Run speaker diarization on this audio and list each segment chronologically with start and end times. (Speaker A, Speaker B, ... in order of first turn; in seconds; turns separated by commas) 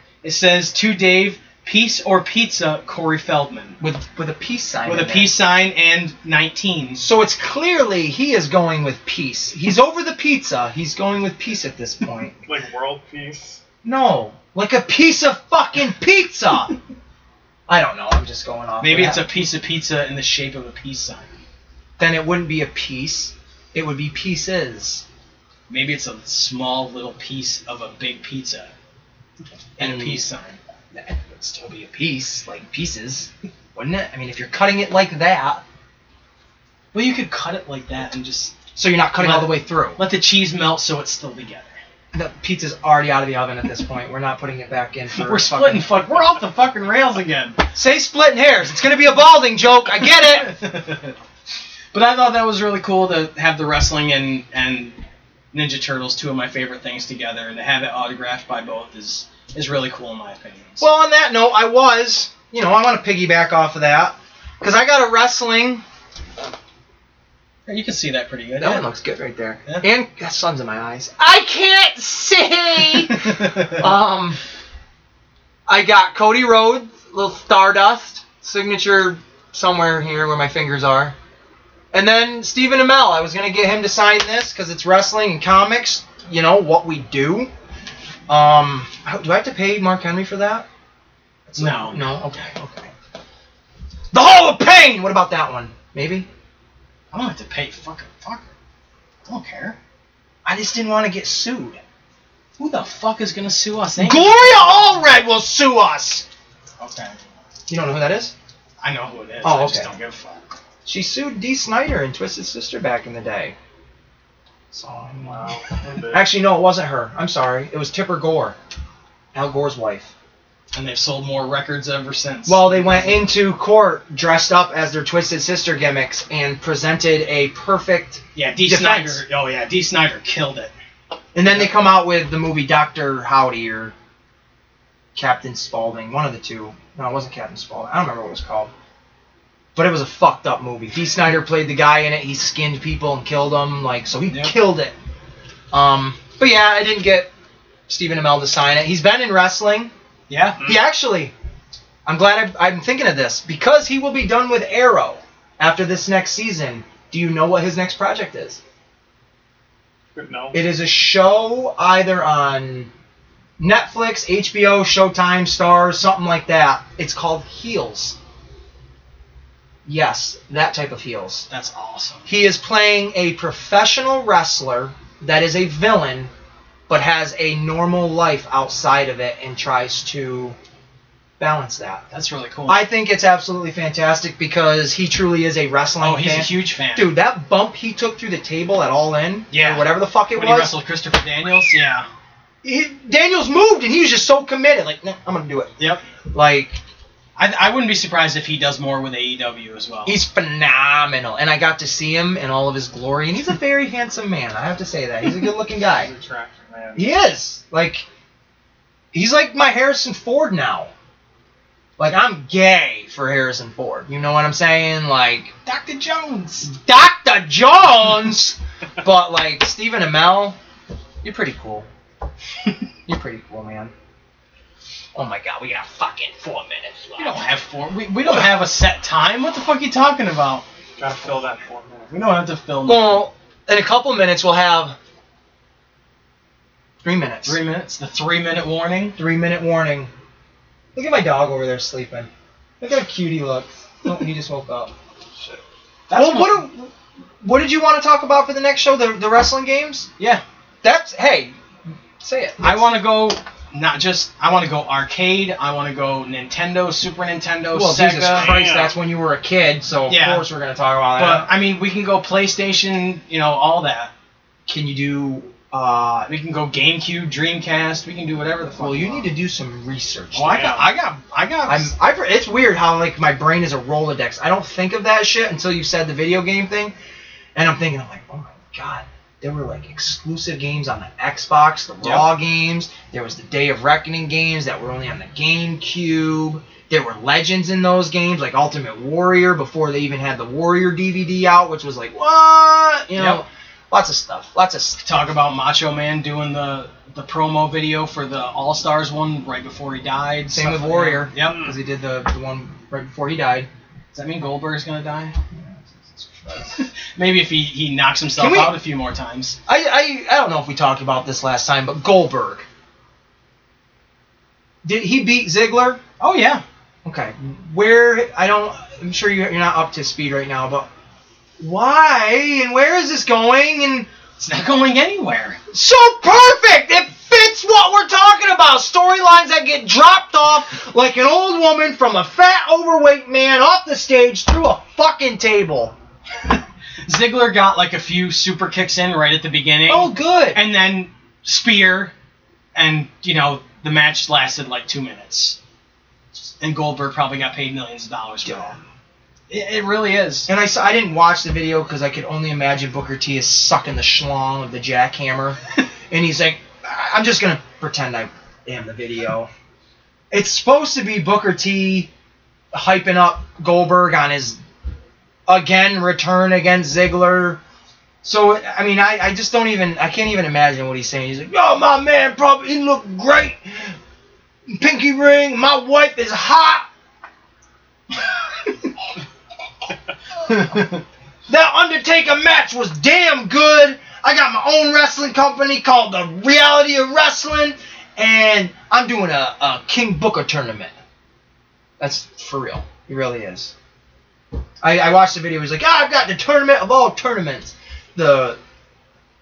Speaker A: 0.2-3.8, Speaker B: 3.8-5.3, Speaker A: 4.8-7.0, Speaker B: 7.0-12.3, Speaker C: 12.4-13.6, Speaker B: 13.8-16.7, Speaker B: 17.7-19.2, Speaker A: 18.8-21.3, Speaker B: 22.0-25.0, Speaker A: 25.7-28.7, Speaker B: 29.8-30.2, Speaker A: 29.8-30.6, Speaker B: 30.9-35.6, Speaker A: 36.9-38.6, Speaker B: 38.8-40.0, Speaker A: 39.2-41.8, Speaker B: 42.1-45.9, Speaker A: 45.2-47.6, Speaker B: 47.7-50.5, Speaker A: 50.2-51.1, Speaker A: 51.9-55.0, Speaker A: 55.5-60.9, Speaker B: 60.8-65.8, Speaker A: 67.7-68.8, Speaker B: 68.6-74.4, Speaker A: 73.1-73.8, Speaker B: 75.7-81.1, Speaker B: 81.9-87.5, Speaker B: 88.3-90.7, Speaker B: 91.5-92.9, Speaker A: 91.6-92.5, Speaker B: 94.1-96.3, Speaker A: 97.1-98.5, Speaker A: 99.2-99.8, Speaker B: 100.4-101.8, Speaker A: 102.6-104.6, Speaker B: 104.0-106.2, Speaker A: 106.8-107.2, Speaker B: 107.7-108.3, Speaker A: 108.8-110.4, Speaker B: 109.4-109.9, Speaker B: 110.8-113.5, Speaker B: 114.7-115.4, Speaker C: 115.2-116.3, Speaker B: 116.1-118.6, Speaker B: 119.3-120.1, Speaker A: 120.7-123.2, Speaker B: 122.5-129.2, Speaker A: 128.3-130.7, Speaker B: 131.3-133.9, Speaker B: 135.1-138.7, Speaker B: 139.7-144.9, Speaker A: 144.3-144.5, Speaker B: 145.7-147.3, Speaker B: 147.9-149.9, Speaker A: 150.3-150.6, Speaker B: 150.6-151.3, Speaker B: 152.1-158.6, Speaker C: 160.1-160.6, Speaker B: 160.5-162.9, Speaker B: 163.6-168.2, Speaker B: 169.8-171.5, Speaker A: 171.5-172.3, Speaker B: 172.3-176.3, Speaker B: 176.9-180.6, Speaker B: 181.4-182.0, Speaker A: 182.1-182.8, Speaker B: 182.7-190.7, Speaker A: 186.0-187.1, Speaker A: 189.5-192.1, Speaker B: 192.6-195.7, Speaker B: 196.3-196.8, Speaker A: 197.3-200.2, Speaker B: 200.1-206.1, Speaker C: 205.9-207.1, Speaker B: 206.9-208.1, Speaker B: 209.1-210.9, Speaker B: 212.0-215.5, Speaker A: 215.7-216.7, Speaker B: 216.6-220.6, Speaker B: 221.2-221.9, Speaker B: 223.1-223.9, Speaker B: 225.1-227.4, Speaker A: 227.2-230.6, Speaker C: 231.0-232.3, Speaker A: 232.1-233.2, Speaker B: 232.8-235.0, Speaker B: 237.0-237.6, Speaker A: 237.4-239.2, Speaker B: 239.2-240.1, Speaker B: 240.9-242.3, Speaker B: 242.8-244.9, Speaker A: 246.1-246.6, Speaker B: 246.1-250.1, Speaker B: 250.8-251.5, Speaker B: 252.2-252.8, Speaker A: 252.6-258.6, Speaker B: 257.7-261.5, Speaker C: 258.3-258.9, Speaker A: 260.1-260.4, Speaker A: 261.2-264.1, Speaker B: 264.7-266.3, Speaker A: 266.3-269.3, Speaker B: 268.8-270.9, Speaker A: 270.3-271.9, Speaker B: 271.6-276.9, Speaker B: 277.5-295.0, Speaker A: 282.0-282.3, Speaker A: 293.1-293.4, Speaker A: 295.0-301.6, Speaker B: 300.5-303.7, Speaker A: 304.1-305.4, Speaker B: 305.5-306.8, Speaker A: 306.7-309.6, Speaker B: 308.4-308.8, Speaker B: 309.7-312.6, Speaker B: 314.8-316.0, Speaker A: 316.2-316.6, Speaker B: 317.0-320.9, Speaker B: 321.6-324.1, Speaker A: 324.4-325.6, Speaker B: 325.7-335.9, Speaker A: 336.4-342.1, Speaker B: 339.9-340.6, Speaker A: 342.7-345.6, Speaker A: 346.6-348.8, Speaker B: 348.4-348.7, Speaker A: 349.5-350.5, Speaker B: 350.5-359.5, Speaker B: 360.3-362.1, Speaker B: 362.7-364.6, Speaker B: 365.5-367.6, Speaker B: 368.2-374.0, Speaker B: 374.7-376.9, Speaker A: 380.5-381.0, Speaker B: 381.5-390.9, Speaker B: 392.0-393.7, Speaker B: 394.8-398.6